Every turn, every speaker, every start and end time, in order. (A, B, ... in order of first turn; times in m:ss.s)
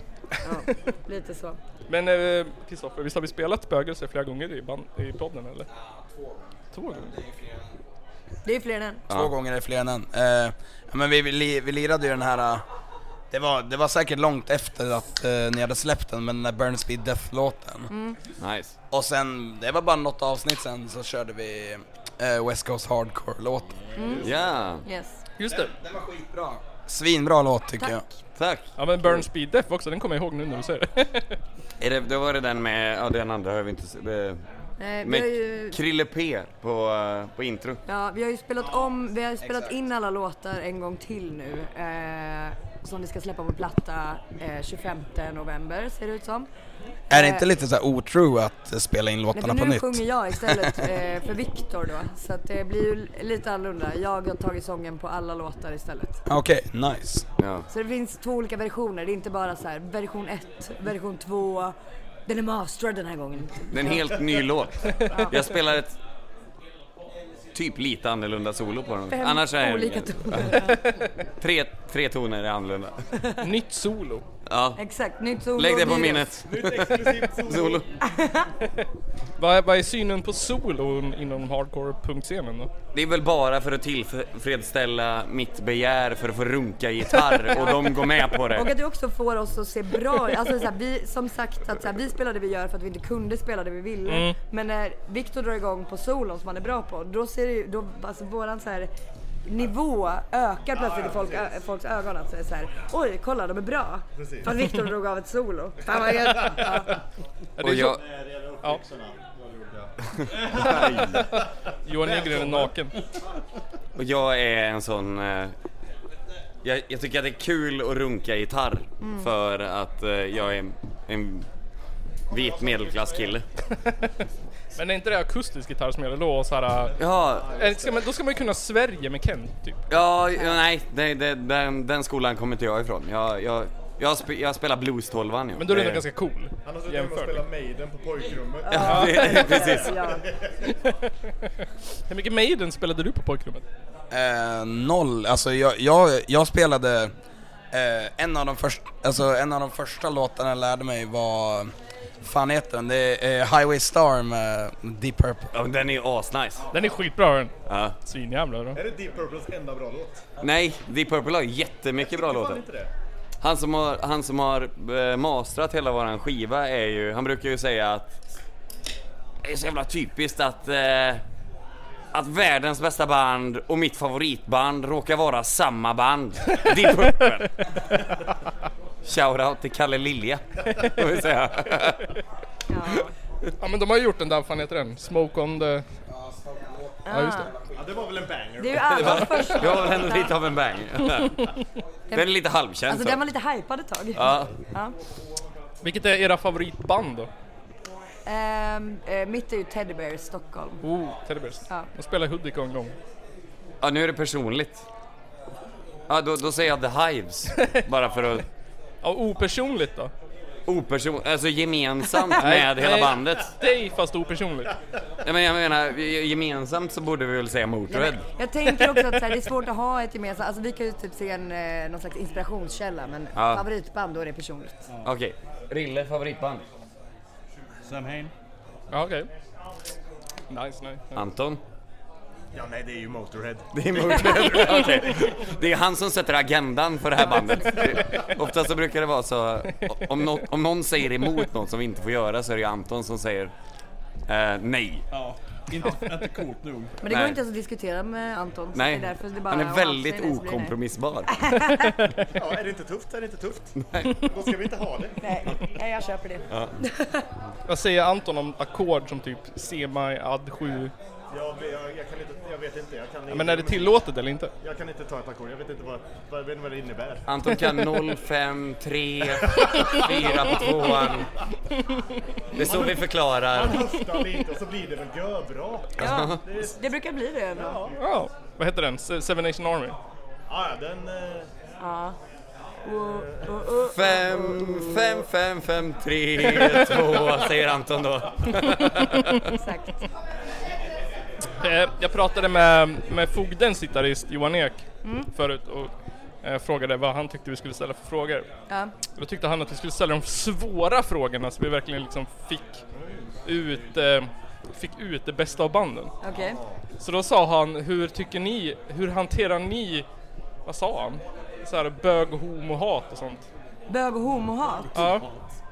0:00.4-0:01.6 A
0:01.9-0:05.7 B
0:05.7-0:07.8 C
0:06.7-0:07.1 B
0:08.4-0:09.0 A
0:09.1-0:12.6 C
0:13.3-0:17.9 C
0:17.9-0:18.2 A
0:18.4-0:18.8 D
0:18.9-0:23.7 C
0:24.0-0:24.3 A
0:24.0-0:24.4 E
0:24.2-0:24.8 D
0:24.8-0:25.2 A
0:25.4-0:25.7 B
0:25.5-0:28.0 C
0:28.4-0:29.2 D
0:28.8-0:31.4 B
0:31.8-0:34.4 D
0:34.8-0:35.8 A
0:35.0-0:37.8 D
0:37.9-0:46.5 A
0:39.4-0:39.7 C
0:47.1-0:47.4 A
0:47.1-0:50.9 C
0:49.3-0:56.2 A
0:56.2-0:57.2 C
0:57.4-0:57.6 D
0:57.7-1:01.7 A
1:02.3-1:04.0 A
1:03.7-1:06.0 D
1:05.1-1:05.4 A
1:07.5-1:10.7 D
1:09.1-1:10.8 A
1:11.4-1:13.0 D
1:13.4-1:14.2 B
1:14.5-1:14.8 D
1:14.8-1:16.3 A
1:15.6-1:17.8 D
1:16.4-1:17.8 E
1:18.0-1:18.5 A
1:19.4-1:22.7 B
1:22.9-1:28.7 D
1:28.5-1:38.9 A
1:34.1-1:34.3 B
1:39.4-1:46.9 A
1:40.7-1:41.5 E
1:44.2-1:44.5 E
1:46.0-1:46.7 E
1:47.6-1:48.0 B
1:47.6-1:48.0 D
1:47.9-1:51.4 E
1:50.5-1:50.9 F
1:50.5-1:52.9 B
1:52.1-1:52.6 E
1:54.0-1:55.5 D
1:56.6-2:01.5 D
1:59.0-1:59.3 A
2:02.3-2:03.4 D
2:04.8-2:06.9 B
2:07.0-2:07.6 D
2:07.3-2:07.9 E
2:07.5-2:09.8 B
2:09.9-2:16.0 D
2:10.3-2:10.6 A
2:15.6-2:17.4 B
2:16.6-2:20.6 E
2:18.6-2:20.2 A
2:18.7-2:19.9 D
2:18.8-2:19.7 B
2:20.7-2:21.1 B
2:22.1-2:23.6 B
2:24.1-2:27.1 C
2:27.7-2:35.5 C
2:35.5-2:36.6 D
2:36.7-2:37.5 B
2:37.6-2:37.9 D
2:38.0-2:38.8 B
2:38.7-2:40.2 E
2:40.4-2:42.6 D
2:42.0-2:42.9 E
2:43.4-2:48.1 D
2:49.4-2:51.2 D
2:52.1-2:57.8 D
2:59.0-3:02.1 D
3:02.7-3:03.1 A
3:03.6-3:05.8 B
3:06.1-3:07.4 C
3:07.0-3:07.5 A
3:07.1-3:07.5 B
3:07.8-3:09.9 E
3:08.6-3:10.3 A
3:08.9-3:11.5 D
3:12.1-3:13.2 D
3:12.9-3:14.9 A
3:14.1-3:14.5 D
3:15.8-3:17.3 B
3:18.3-3:20.8 A
3:20.8-3:22.9 B
3:23.8-3:24.8 D
3:26.1-3:28.4 D
3:29.0-3:30.1 B
3:30.7-3:33.5 D
3:32.4-3:34.7 B
3:35.2-3:38.2 D
3:37.9-3:44.8 A
3:43.3-3:43.6 D
3:45.0-3:46.6 D
3:47.9-3:48.3 F
3:48.9-3:49.3 B
3:50.5-3:51.2 B
3:51.2-3:51.6 D
3:52.5-3:53.6 E
3:53.7-4:03.5 D
4:04.3-4:05.0 D
4:05.1-4:06.9 F
4:07.0-4:10.7 A
4:07.1-4:07.4 D
4:08.7-4:11.4 D
4:11.3-4:12.0 A
4:12.3-4:13.7 E
4:13.8-4:14.3 D
4:14.2-4:15.2 E
4:15.2-4:17.2 A
4:16.5-4:16.7 D
4:17.7-4:20.9 B
4:21.3-4:24.0 E
4:23.3-4:24.5 B
4:24.6-4:27.2 E
4:27.3-4:31.3 D
4:32.5-4:34.0 D
4:32.6-4:36.8 E
4:36.0-4:37.8 A
4:36.0-4:36.4 D
4:37.5-4:38.0 E
4:38.0-4:40.0 B
4:40.5-4:41.5 E
4:41.8-4:42.2 A
4:42.8-4:45.2 A
4:43.0-4:43.5 E
4:43.9-4:49.5 D
4:49.5-4:50.0 A
4:51.6-4:55.9 B
4:55.0-4:55.3 A
4:56.4-4:58.4 B
4:59.2-5:02.8 B
5:03.0-5:03.3 E
5:03.4-5:06.1 B
5:06.2-5:06.6 A
5:06.4-5:06.8 E
5:07.0-5:10.0 B
5:10.7-5:13.4 B
5:13.9-5:14.9 A
5:14.9-5:15.2 B